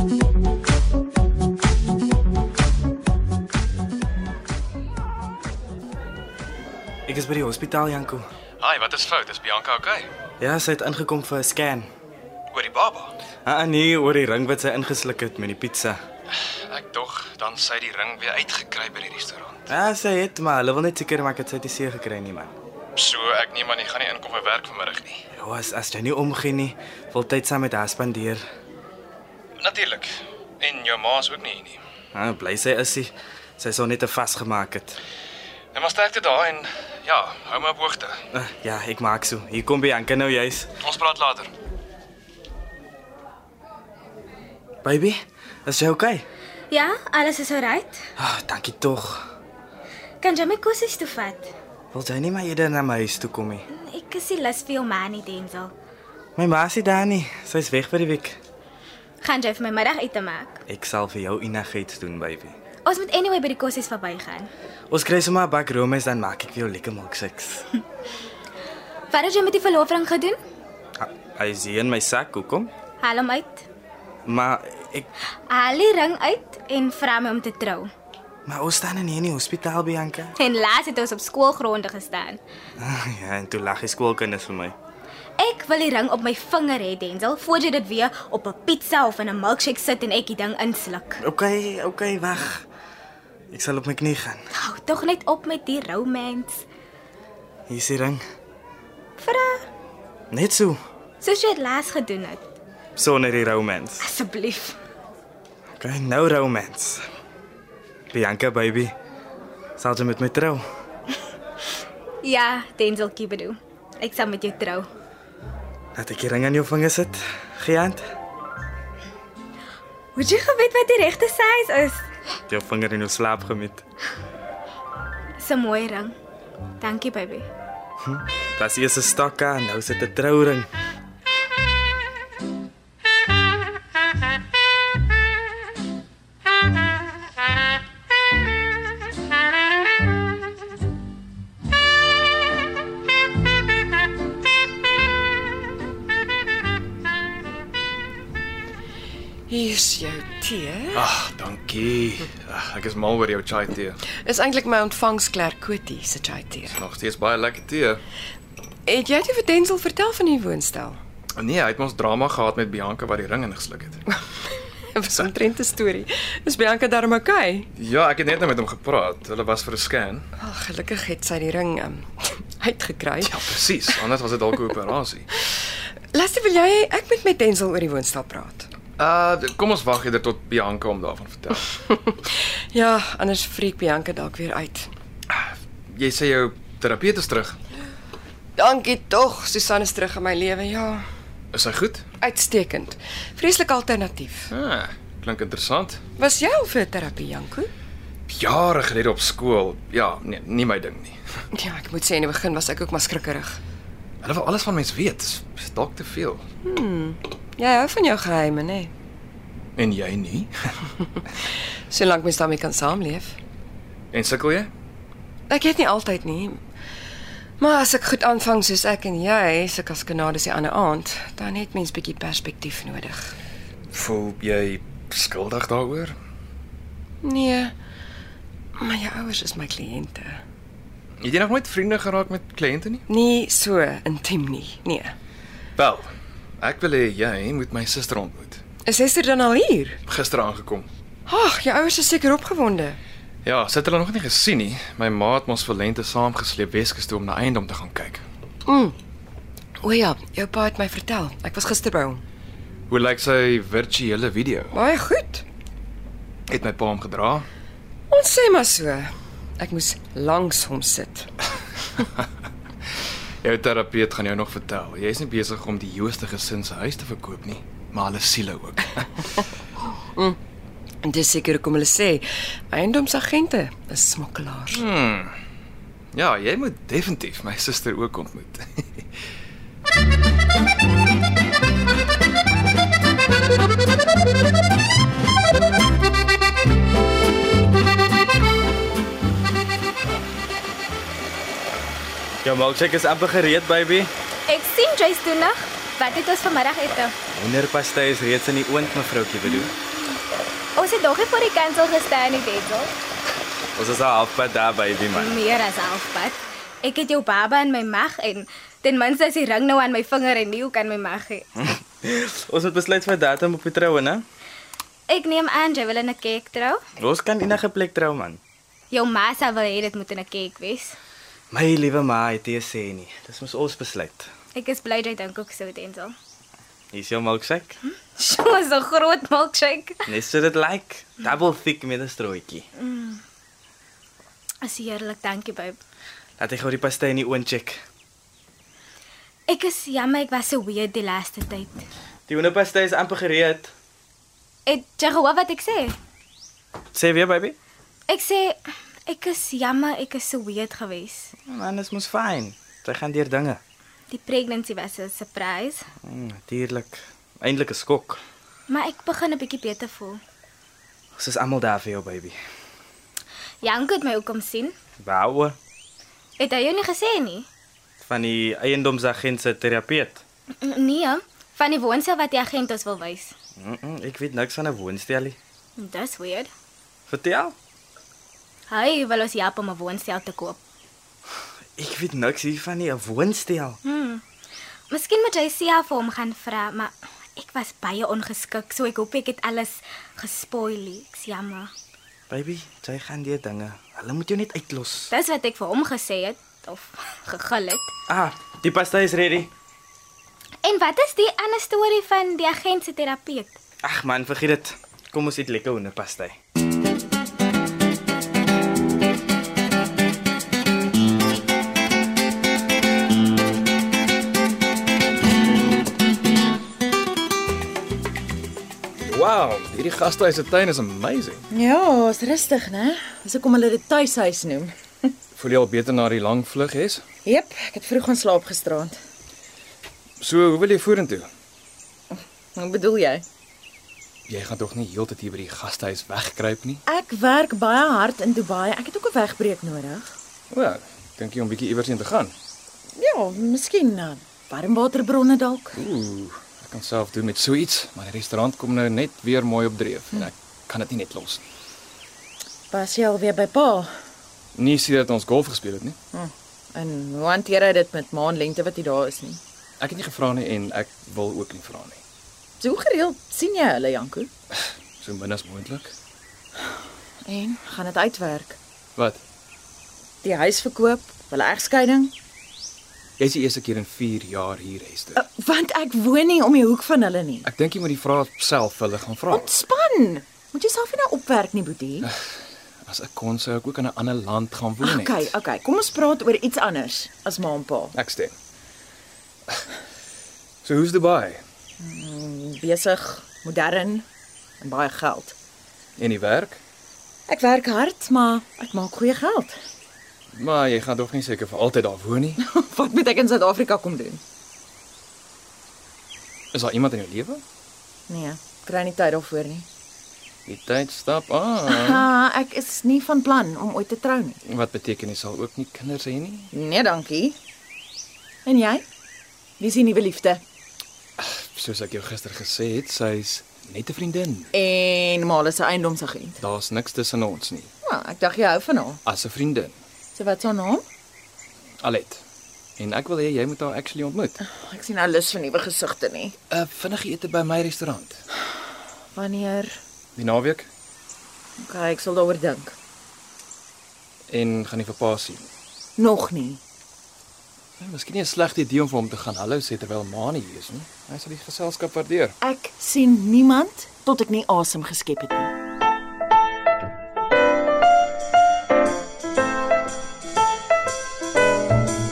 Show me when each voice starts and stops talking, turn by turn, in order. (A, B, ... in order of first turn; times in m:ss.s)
0:07.1-0:08.3 A
0:08.6-0:10.1 B
0:10.4-0:11.9 A
0:12.5-0:13.2 B
0:13.5-0:16.0 A
0:16.7-0:19.7 B
0:19.7-0:22.5 A
0:23.0-0:25.2 B
0:25.3-0:28.4 A
0:29.6-0:31.8 B
0:32.1-0:35.0 A
0:35.7-0:38.2 B
0:38.3-0:40.7 A
0:40.8-0:41.5 B
0:44.8-0:46.2 A
0:46.7-0:48.0 C
0:48.2-0:49.2 A
0:50.2-0:51.5 C
0:51.9-0:53.6 A
0:53.7-0:55.7 C
0:56.4-0:58.4 A
0:59.2-1:00.6 C
1:00.7-1:02.5 A
1:02.8-1:04.5 C
1:04.9-1:07.7 A
1:09.1-1:10.4 C
1:11.0-1:12.7 A
1:13.0-1:13.7 C
1:14.3-1:15.1 A
1:15.5-1:17.9 C
1:18.5-1:20.3 A
1:20.4-1:22.4 C
1:22.8-1:24.8 A
1:25.4-1:31.2 C
1:31.2-1:32.6 A
1:33.5-1:34.4 A
1:34.5-1:36.6 C
1:37.7-1:38.2 A
1:39.2-1:39.7 C
1:40.3-1:40.8 A
1:41.2-1:42.5 C
1:43.0-1:44.0 A
1:44.0-1:44.8 C
1:45.8-1:47.0 A
1:48.1-1:48.9 A
1:49.8-1:50.6 A
1:52.2-1:54.9 C
1:56.0-1:58.0 A
2:00.2-2:02.1 C
2:02.5-2:03.8 A
2:05.4-2:06.2 C
2:06.8-2:07.5 C
2:08.0-2:10.7 A
2:29.5-2:31.0 D
2:30.9-2:34.0 B
2:34.1-2:36.8 D
2:36.7-2:38.0 B
2:38.9-2:41.0 D
2:41.4-2:44.0 B
2:44.1-2:47.7 D
2:47.7-2:50.2 B
2:50.4-2:54.0 D
2:53.2-2:55.3 B
2:56.1-2:58.7 D
2:59.0-3:01.7 B
3:01.9-3:04.9 D
3:05.3-3:07.6 B
3:08.6-3:11.0 D
3:11.5-3:12.1 B
3:12.2-3:14.5 D
3:14.5-3:16.0 B
3:16.2-3:17.7 D
3:18.3-3:21.2 B
3:21.5-3:23.6 D
3:24.2-3:26.4 B
3:26.6-3:28.9 D
3:29.8-3:30.5 B
3:31.9-3:33.4 D
3:34.1-3:34.7 B
3:35.5-3:36.6 D
3:37.6-3:43.3 D
3:43.9-3:46.2 B
3:47.2-3:47.7 D
3:48.8-3:50.4 D
3:51.2-3:53.0 B
3:53.1-3:55.1 D
3:55.8-3:56.1 B
3:56.6-3:58.6 B
3:58.8-4:00.0 D
4:00.1-4:00.9 B
4:01.3-4:03.0 D
4:03.4-4:08.2 B
4:08.7-4:09.0 D
4:09.8-4:12.2 D
4:12.9-4:14.8 B
4:14.7-4:15.4 D
4:16.5-4:17.5 B
4:18.1-4:21.3 D
4:23.4-4:29.2 B
4:31.0-4:34.8 D
4:34.7-4:35.3 B
4:36.1-4:39.1 B
4:52.4-4:54.1 A
4:54.5-4:57.1 C
4:57.3-4:59.7 A
5:00.8-5:02.9 C
5:03.8-5:05.4 A
5:05.1-5:11.5 C
5:11.6-5:14.2 A
5:15.1-5:16.8 C
5:17.0-5:18.4 A
5:18.9-5:21.0 C
5:21.5-5:24.3 A
5:24.5-5:26.2 C
5:26.9-5:27.8 A
5:27.9-5:30.0 C
5:30.1-5:32.7 A
5:32.8-5:33.2 C
5:34.6-5:35.8 C
5:36.4-5:37.8 A
5:39.5-5:41.9 C
5:42.3-5:43.7 A
5:44.7-5:46.0 C
5:47.0-5:47.6 A
5:48.1-5:51.3 C
5:51.5-5:53.6 A
5:54.1-5:55.8 C
5:56.1-5:58.2 A
5:58.7-6:00.2 C
6:01.2-6:02.4 A
6:03.6-6:04.7 C
6:05.0-6:05.6 A
6:06.4-6:07.5 C
6:08.0-6:10.2 A
6:10.6-6:13.3 C
6:13.6-6:15.4 A
6:15.8-6:16.5 C
6:17.1-6:17.5 A
6:18.7-6:20.6 C
6:21.8-6:23.8 A
6:23.8-6:24.2 C
6:24.9-6:31.7 C
6:32.3-6:35.1 A
6:35.1-6:37.9 C
6:38.1-6:39.5 A
6:40.6-6:43.6 C
6:43.8-6:46.4 A
6:59.0-7:01.4 B
7:01.5-7:04.7 E
7:05.4-7:07.0 B
7:07.2-7:09.0 E
7:10.2-7:11.3 B
7:12.6-7:13.2 E
7:14.3-7:16.8 B
7:16.9-7:20.1 E
7:20.5-7:22.3 B
7:23.0-7:25.8 E
7:25.8-7:31.4 B
7:32.7-7:33.9 E
7:34.6-7:36.0 B
7:36.1-7:39.4 E
7:39.8-7:42.0 B
7:42.6-7:44.3 E
7:44.5-7:45.9 B
7:47.3-7:48.6 E
7:50.2-7:52.1 E
7:53.2-7:55.2 B
7:55.2-7:57.5 E
7:57.4-7:59.6 B
7:59.3-8:02.1 E
8:02.0-8:02.3 B
8:02.8-8:05.4 B
8:04.8-8:07.9 E
8:07.9-8:08.3 B
8:10.6-8:11.4 B
8:11.8-8:14.0 E
8:14.6-8:15.4 E
8:16.0-8:16.6 B
8:17.3-8:19.6 E
8:20.3-8:22.4 B
8:22.4-8:24.2 E
8:26.5-8:27.4 B
8:28.1-8:29.7 E
8:30.5-8:32.1 B
8:31.7-8:34.4 E
8:34.4-8:36.5 B
8:36.5-8:37.4 E
8:38.5-8:38.8 E
8:39.6-8:40.4 E
8:41.2-8:44.5 B
8:44.5-8:46.4 E
8:46.4-8:47.7 B
8:47.8-8:49.0 E
8:49.0-8:49.8 B
8:50.2-8:50.8 E
8:51.8-8:52.2 B
8:52.8-8:54.4 B
8:54.4-8:56.4 E
8:56.5-8:58.2 B
8:59.2-8:59.7 E
9:00.2-9:00.7 B
9:01.6-9:02.7 E
9:04.3-9:05.5 B
9:06.0-9:06.6 E
9:07.8-9:12.4 B
9:12.4-9:15.5 E